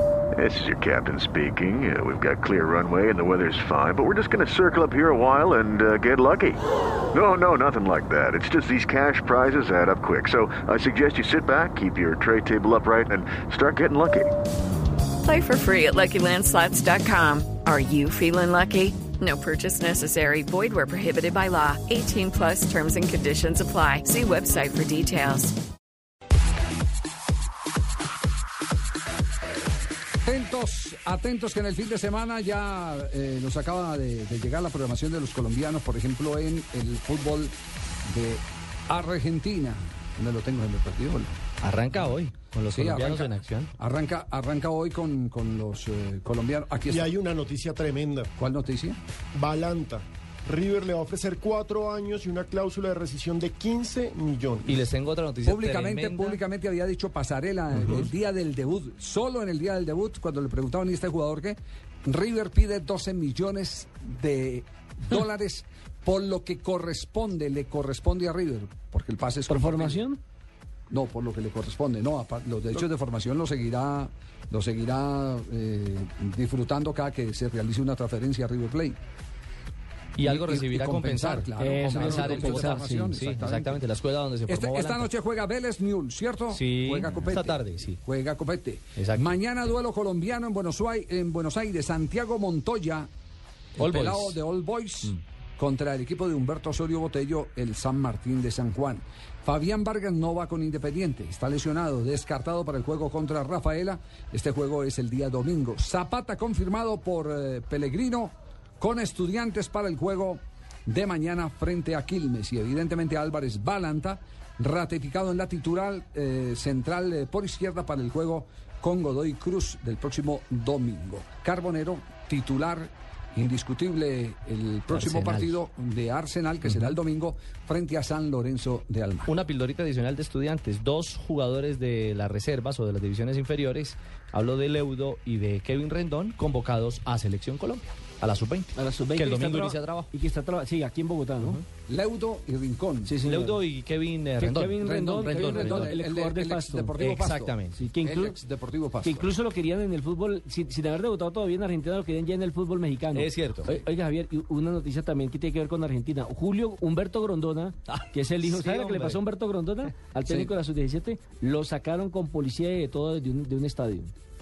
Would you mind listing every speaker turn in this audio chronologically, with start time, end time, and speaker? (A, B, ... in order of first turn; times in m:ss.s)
0:00.4-0:06.6 A
0:07.1-0:14.4 A
0:15.2-0:25.6 B
0:30.2-0:37.6 C
0:38.1-0:41.4 C
0:41.6-0:43.7 D
0:42.7-0:47.1 C
0:46.9-0:48.3 E
0:48.4-0:49.0 C
0:49.3-0:54.8 E
0:54.6-0:56.4 D
0:55.4-1:10.0 C
1:09.5-1:10.2 F
1:10.9-1:19.0 C
1:20.2-1:25.1 D
1:20.2-1:23.8 C
1:21.6-1:23.2 F
1:24.5-1:33.1 C
1:26.5-1:28.0 D
1:29.0-1:29.3 D
1:33.8-2:09.3 C
1:33.8-1:34.4 D
2:04.9-2:05.6 D
2:06.6-2:07.0 D
2:09.3-2:20.1 D
2:18.8-2:21.6 F
2:21.4-2:21.6 D
2:21.9-2:23.2 C
2:23.0-2:23.6 F
2:23.2-2:26.0 D
2:24.4-2:27.0 F
2:24.8-2:29.3 C
2:27.0-2:27.8 D
2:27.7-2:28.4 F
2:29.0-2:44.1 F
2:33.1-2:33.8 D
2:37.9-2:39.2 D